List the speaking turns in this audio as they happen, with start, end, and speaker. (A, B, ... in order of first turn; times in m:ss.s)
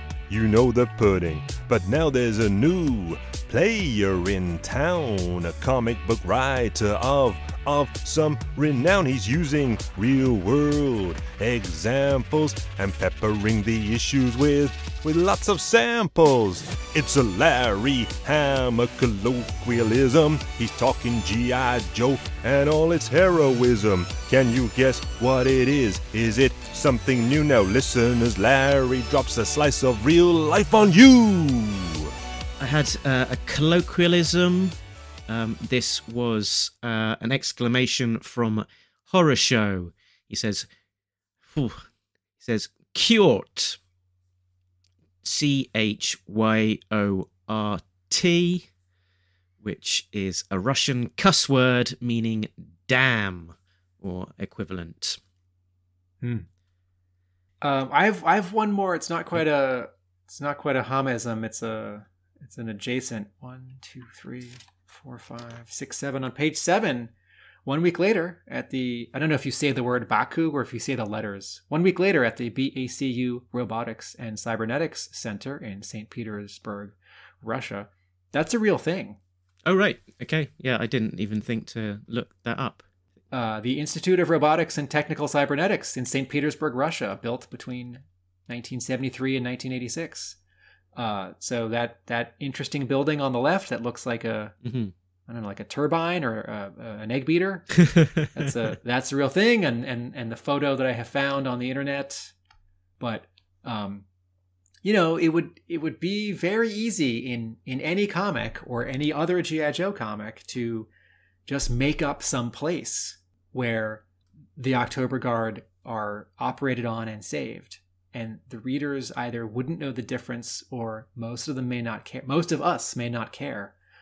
0:00.3-0:32.1 A
0:32.6-0:34.8 B
0:35.3-0:40.7 B
0:41.5-0:41.9 B
0:42.4-0:43.8 B
0:45.2-0:48.7 B
0:49.6-0:55.2 B
0:57.6-1:07.1 C
1:07.7-1:19.2 C
1:19.7-1:22.8 B
1:23.3-1:30.4 C
1:31.0-1:34.6 C
1:34.6-1:34.9 B
1:35.3-1:42.3 C
1:37.8-1:38.4 B
1:43.0-1:44.0 C
1:44.8-1:50.9 C
1:51.5-1:54.0 C
1:54.6-2:03.7 C